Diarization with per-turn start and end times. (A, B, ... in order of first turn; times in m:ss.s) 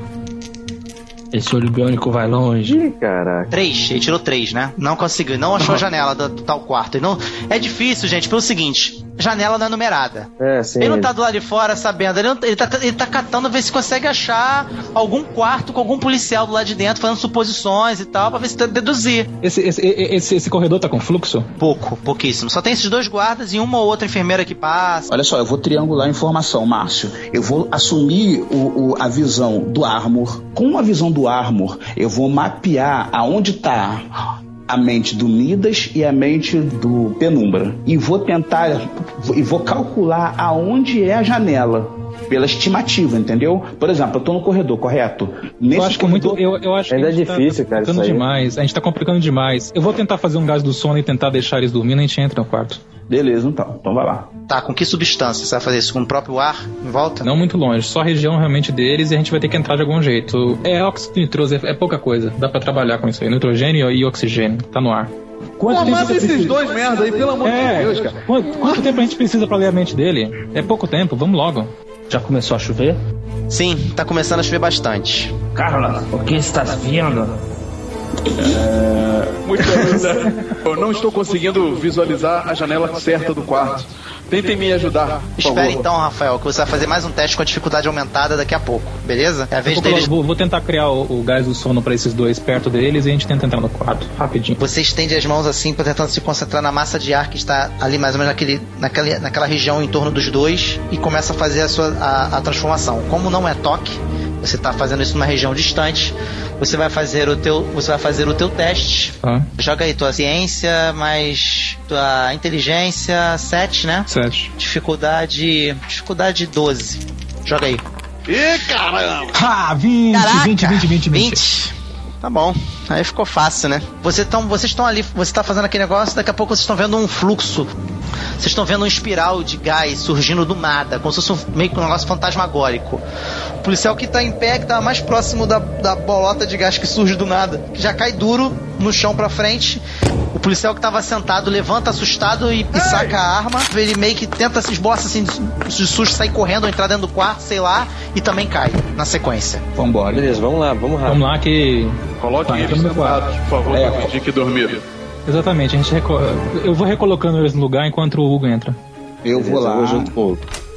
0:01.3-0:02.8 A
0:02.7-0:03.5 B
0:03.5-0:10.3 C
0:05.6-0:05.8 D
0:10.4-0:11.1 B
0:10.8-0:19.3 C
0:19.4-0:21.5 E
0:21.6-0:25.1 C
0:25.1-0:34.1 F
0:34.7-0:46.4 F
0:45.7-0:52.8 E
0:46.9-0:48.2 B
0:53.1-0:54.3 F
0:54.5-0:57.3 C
0:57.2-1:05.1 E
1:05.6-1:06.6 F
1:05.7-1:08.8 D
1:05.8-1:06.2 E
1:07.4-1:11.7 E
1:12.1-1:13.0 A
1:13.5-1:15.4 C
1:15.6-1:17.4 A
1:18.3-1:19.4 F
1:19.4-1:25.8 D
1:25.4-1:30.1 C
1:29.7-1:34.6 E
1:34.6-1:57.8 C
1:49.2-1:49.5 E
1:54.1-1:54.5 E
1:58.3-1:59.4 D
1:59.3-2:01.4 E
2:00.1-2:07.7 C
2:08.4-2:13.0 C
2:13.6-2:19.8 C
2:20.3-2:29.6 C
2:22.8-2:23.1 D
2:29.8-2:30.4 F
2:30.1-2:31.3 B
2:31.1-2:33.4 E
2:32.2-2:34.8 D
2:33.7-2:34.2 F
2:35.3-2:38.8 E
2:39.2-2:40.2 F
2:39.3-2:40.4 B